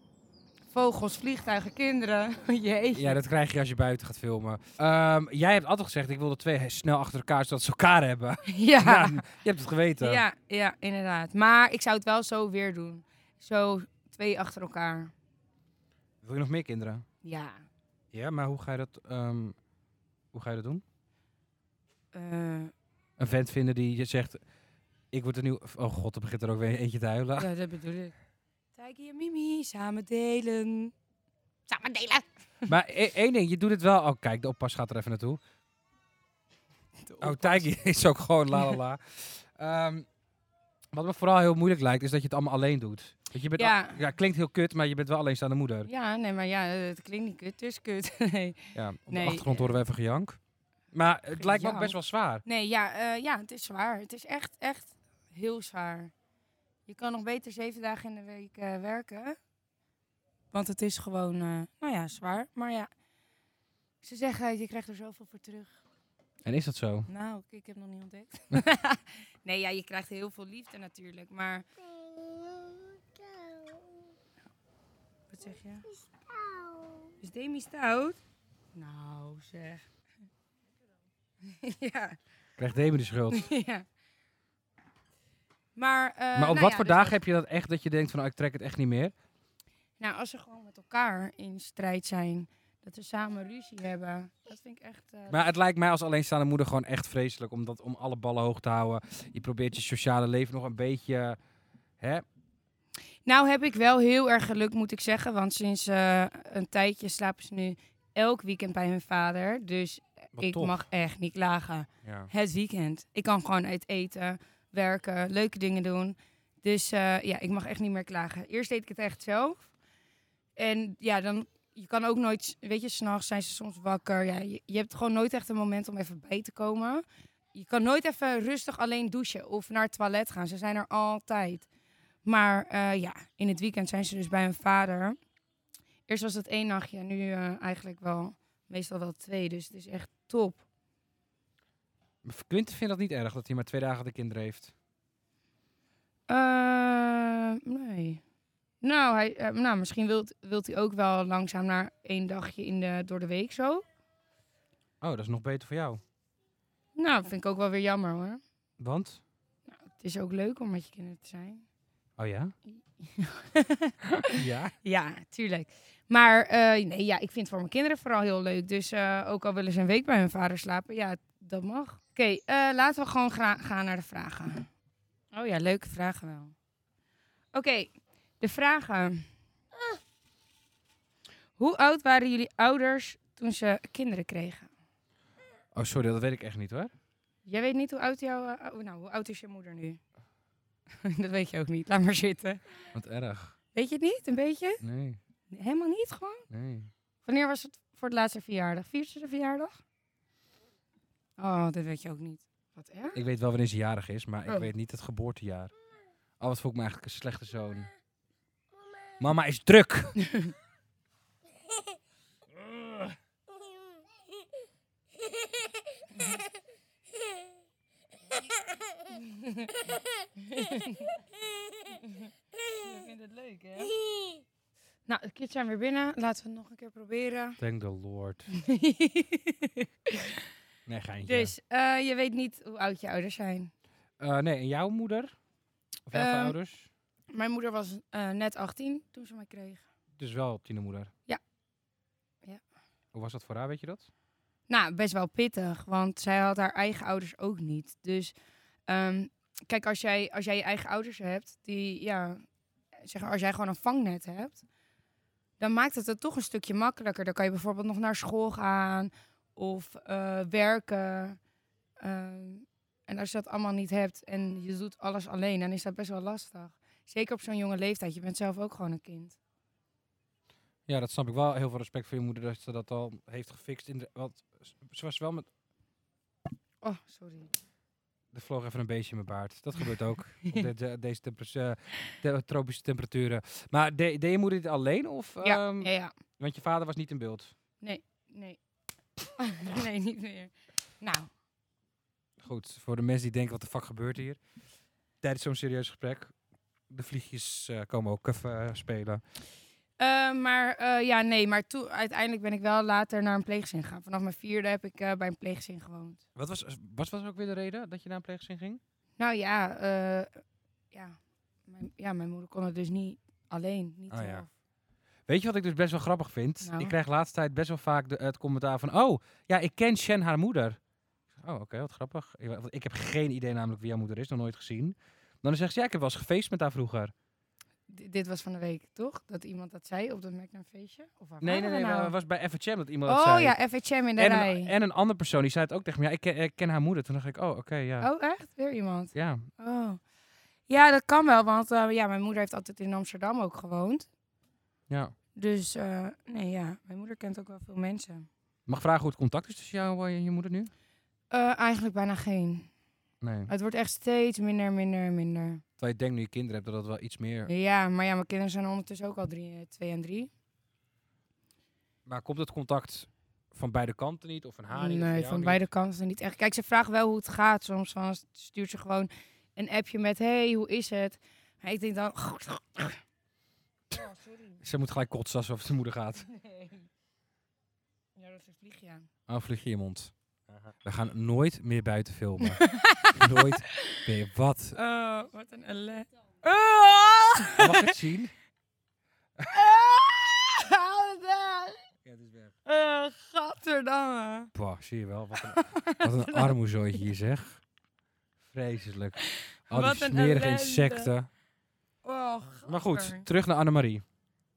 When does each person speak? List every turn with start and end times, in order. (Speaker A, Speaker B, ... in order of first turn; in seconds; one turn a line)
Speaker A: 0.7-3.2
Speaker B: 2.9-10.2
Speaker A: 8.5-9.3
Speaker A: 10.0-15.1
Speaker B: 16.2-17.1
Speaker A: 17.2-17.6
Speaker B: 18.1-19.6
Speaker B: 20.3-20.8
Speaker A: 22.1-22.7
Speaker B: 23.2-24.4
Speaker B: 25.1-27.5
Speaker A: 27.4-28.1
Speaker A: 28.8-30.9
Speaker A: 31.7-32.7
Speaker B: 32.7-35.4
Speaker A: 37.0-37.7
Speaker B: 37.2-40.1
Speaker B: 40.9-45.9
Speaker A: 43.6-44.0
Speaker A: 45.9-49.7
Speaker B: 48.8-50.4
Speaker B: 50.9-52.4
Speaker A: 51.3-56.1
Speaker A: 56.9-59.4
Speaker A: 60.5-62.9
Speaker A: 64.0-65.8
Speaker B: 66.5-67.1
Speaker A: 67.1-71.7
Speaker A: 75.3-75.9
Speaker A: 77.2-78.2
Speaker A: 78.8-79.9
Speaker A: 81.4-82.2
Speaker B: 82.6-83.4
Speaker A: 83.3-83.8
Speaker A: 85.8-87.2
Speaker B: 86.3-89.1
Speaker A: 90.0-95.4
Speaker B: 95.3-101.4
Speaker B: 102.0-102.2
Speaker A: 103.3-119.7
Speaker B: 110.4-110.8
Speaker B: 112.0-112.3
Speaker A: 120.6-131.7
Speaker A: 132.2-135.2
Speaker A: 136.1-140.6
Speaker B: 142.2-144.7
Speaker A: 146.3-148.2
Speaker A: 148.8-153.8
Speaker B: 155.0-156.0
Speaker A: 157.0-158.4
Speaker B: 158.8-159.2
Speaker A: 159.7-161.7
Speaker B: 162.2-162.5
Speaker A: 162.7-174.7
Speaker B: 164.3-164.8
Speaker A: 175.3-176.5
Speaker A: 177.5-179.3
Speaker A: 181.6-184.7
Speaker B: 185.7-186.9
Speaker A: 187.5-190.0
Speaker A: 191.0-192.6
Speaker B: 192.9-193.6
Speaker A: 193.7-194.8
Speaker B: 194.8-195.2
Speaker A: 195.5-196.5
Speaker B: 196.5-196.9
Speaker A: 197.2-199.8
Speaker A: 201.4-203.2
Speaker B: 203.2-205.7
Speaker B: 206.4-207.9
Speaker B: 209.2-210.2
Speaker A: 210.2-210.5
Speaker A: 219.1-221.1
Speaker A: 222.1-224.0
Speaker A: 225.1-227.6
Speaker B: 227.6-228.5
Speaker A: 228.5-230.4
Speaker B: 230.9-231.5
Speaker A: 231.3-233.7
Speaker B: 234.2-235.3
Speaker B: 236.1-236.9
Speaker A: 236.1-236.6
Speaker A: 237.3-239.8
Speaker B: 240.2-241.1
Speaker B: 243.1-244.1
Speaker A: 244.7-248.3
Speaker A: 248.9-252.4
Speaker A: 253.1-254.6
Speaker A: 255.6-261.4
Speaker A: 262.0-269.4
Speaker B: 270.9-275.5
Speaker A: 276.8-277.5
Speaker B: 278.3-287.5
Speaker A: 285.4-286.1
Speaker A: 287.8-288.6
Speaker A: 289.3-291.3
Speaker B: 292.4-294.4
Speaker B: 295.2-296.3
Speaker B: 296.9-299.2
Speaker A: 300.0-306.2
Speaker B: 306.4-308.8
Speaker A: 309.2-314.5
Speaker B: 314.1-314.4
Speaker B: 315.3-320.8
Speaker A: 316.6-316.9
Speaker B: 321.4-327.1
Speaker A: 327.9-332.1
Speaker B: 331.4-333.6
Speaker A: 333.1-334.7
Speaker B: 334.2-338.1
Speaker A: 338.0-340.0
Speaker B: 339.1-339.5
Speaker A: 340.7-344.1
Speaker B: 344.9-345.1
Speaker A: 345.4-348.3
Speaker B: 348.7-350.7
Speaker A: 351.3-352.7
Speaker B: 353.2-353.5
Speaker A: 353.5-355.6
Speaker B: 355.8-357.5
Speaker A: 357.5-360.3
Speaker B: 362.1-365.7
Speaker A: 364.7-373.0
Speaker A: 373.9-374.6
Speaker B: 374.6-376.2
Speaker A: 376.3-376.8
Speaker A: 378.2-379.1
Speaker B: 379.3-384.8
Speaker A: 382.6-384.0
Speaker A: 384.8-387.9
Speaker B: 387.6-388.3
Speaker A: 389.5-391.8
Speaker B: 392.1-392.5
Speaker A: 392.7-394.5
Speaker B: 394.5-397.6
Speaker A: 395.4-397.0
Speaker B: 398.5-401.3
Speaker A: 399.3-401.1
Speaker A: 402.0-403.3
Speaker B: 402.7-404.0